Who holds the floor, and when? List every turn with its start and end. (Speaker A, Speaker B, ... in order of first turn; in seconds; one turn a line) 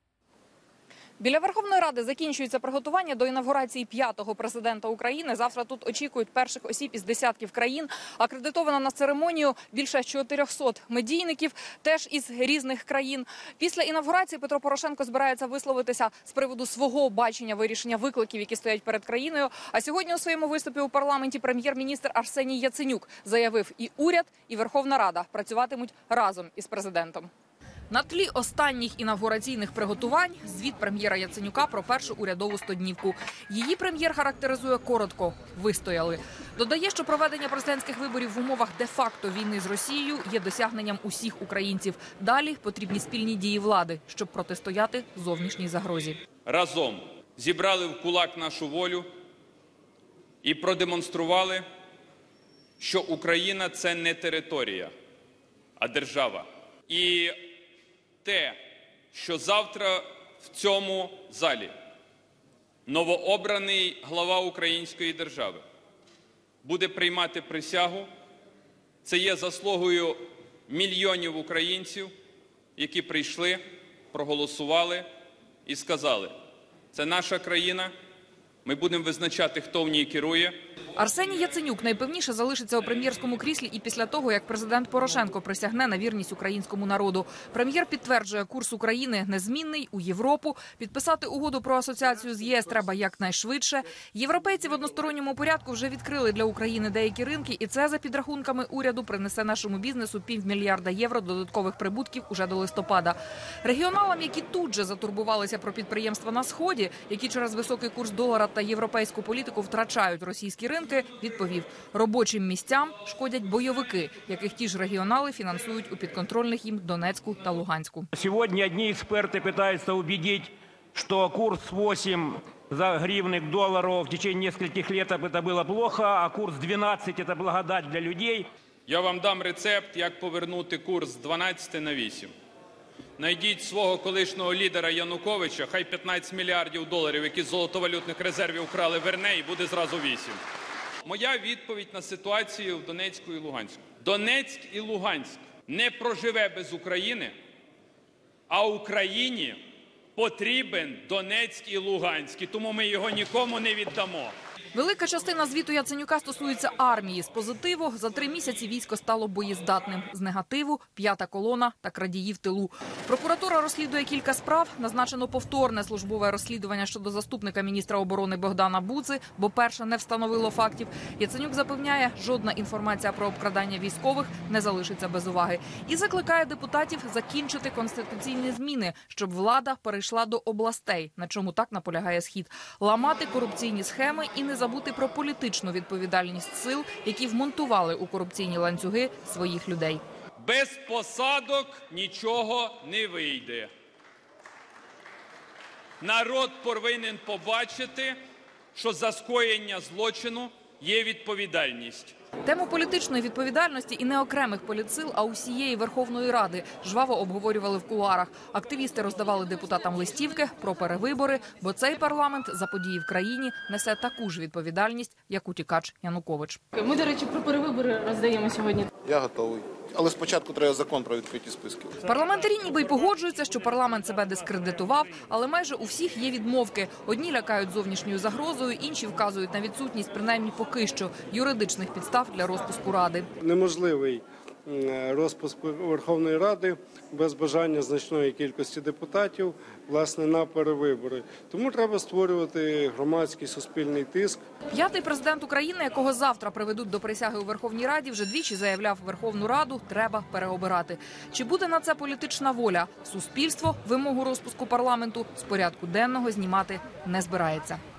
Speaker A: 1.2-27.3
Speaker A: 27.9-46.2
Speaker B: 46.5-49.1
Speaker B: 50.4-51.6
Speaker B: 52.8-54.9
Speaker B: 55.8-57.5
Speaker B: 58.2-58.6
Speaker B: 59.1-61.7
Speaker B: 62.9-65.6
Speaker B: 66.6-68.1
Speaker B: 69.0-72.1
Speaker B: 72.8-73.6
Speaker B: 74.1-75.1
Speaker B: 75.7-76.3
Speaker B: 76.9-77.9
Speaker B: 78.7-80.5
Speaker A: 81.0-118.1
Speaker C: 118.1-128.5
Speaker B: 128.9-132.3
Speaker B: 133.2-140.4
Speaker B: 141.1-147.3
Speaker B: 148.5-149.6
Speaker B: 150.2-154.3
Speaker A: 154.7-190.0
Speaker B: 190.4-193.7
Speaker B: 196.0-198.2
Speaker B: 198.8-202.2
Speaker A: 202.4-216.6
Speaker D: 216.8-218.9
Speaker E: 219.0-221.9
Speaker A: 222.0-233.3
Speaker F: 233.4-244.4
Speaker A: 244.7-257.8